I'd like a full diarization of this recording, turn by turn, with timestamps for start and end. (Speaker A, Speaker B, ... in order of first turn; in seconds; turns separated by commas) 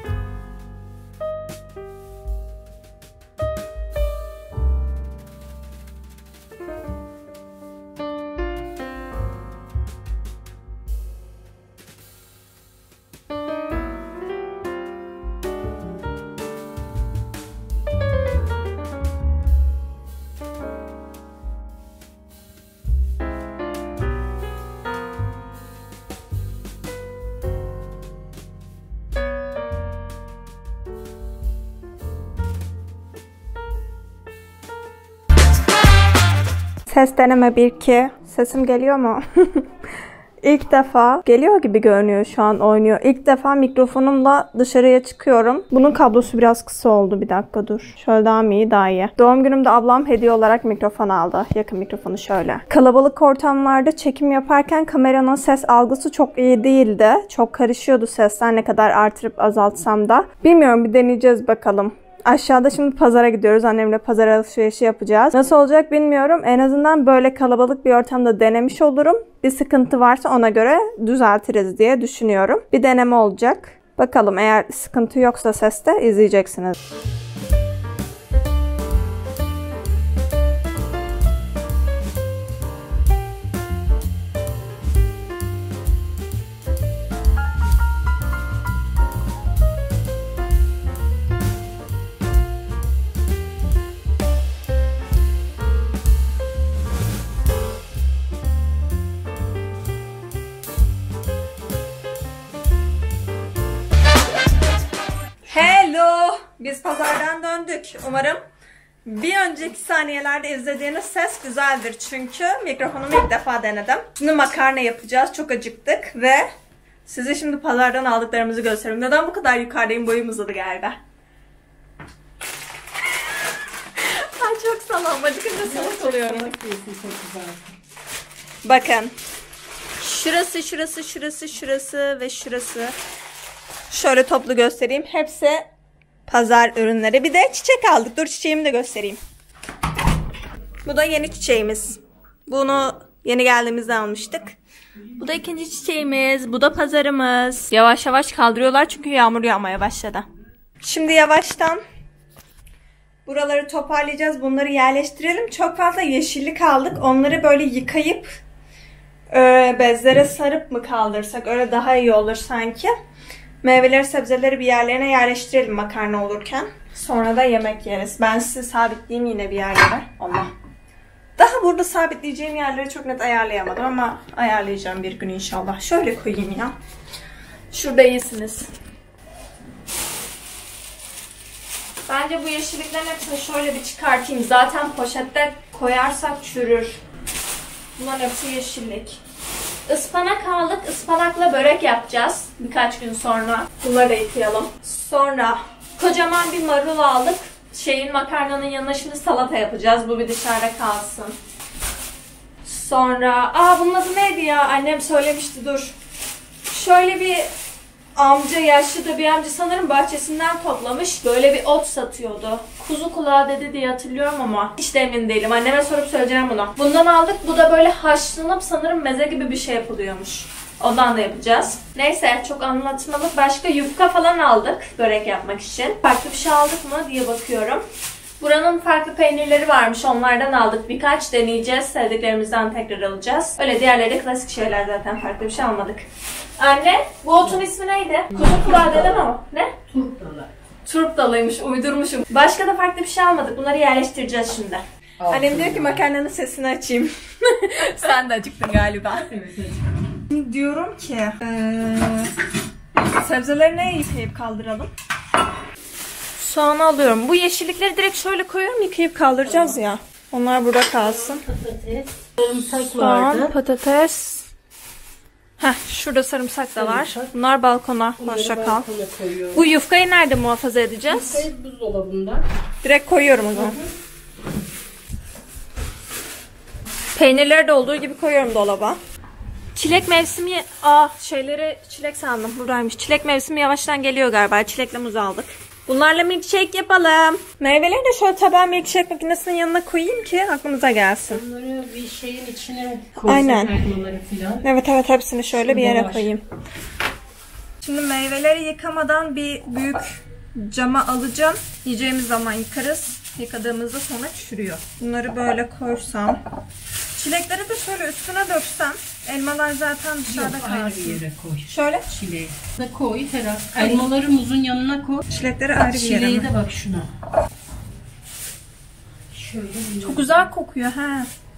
Speaker A: 36.9-39.7, Speaker A: 40.4-76.8, Speaker A: 105.5-108.4, Speaker A: 109.0-116.5, Speaker A: 117.1-121.0, Speaker A: 124.0-126.5, Speaker B: 125.6-127.8, Speaker A: 128.6-129.1, Speaker A: 130.0-132.9, Speaker A: 133.9-135.7, Speaker A: 136.3-139.2, Speaker A: 140.8-144.6, Speaker A: 145.2-150.2, Speaker A: 150.8-151.8, Speaker A: 153.3-158.3, Speaker A: 159.3-162.9, Speaker A: 163.6-170.5, Speaker A: 171.4-176.8, Speaker A: 177.7-178.7, Speaker A: 182.1-187.0, Speaker A: 188.0-189.2, Speaker A: 189.9-201.4, Speaker A: 202.6-206.0, Speaker A: 206.7-207.5, Speaker A: 208.2-227.8, Speaker A: 228.4-236.1, Speaker A: 236.6-239.8, Speaker B: 238.4-239.3, Speaker B: 239.9-240.5, Speaker A: 240.8-249.3, Speaker B: 245.2-246.0, Speaker B: 249.1-249.8, Speaker A: 250.3-252.3, Speaker A: 252.9-254.9, Speaker A: 256.4-261.4, Speaker B: 259.5-259.8, Speaker B: 260.9-263.5, Speaker A: 262.8-264.5, Speaker A: 265.6-268.9, Speaker B: 266.8-267.3, Speaker B: 268.2-269.7, Speaker A: 269.5-271.5, Speaker B: 271.1-272.4, Speaker A: 272.8-273.8, Speaker B: 273.5-273.9, Speaker A: 277.1-279.0, Speaker A: 279.8-291.4, Speaker B: 291.3-294.6, Speaker A: 293.2-293.8, Speaker A: 294.6-296.4, Speaker B: 295.7-296.3, Speaker A: 297.8-306.4, Speaker A: 307.2-312.1, Speaker B: 310.3-315.2, Speaker A: 313.8-314.1, Speaker A: 315.3-316.5, Speaker B: 315.8-317.1, Speaker B: 319.3-320.4, Speaker A: 320.0-321.3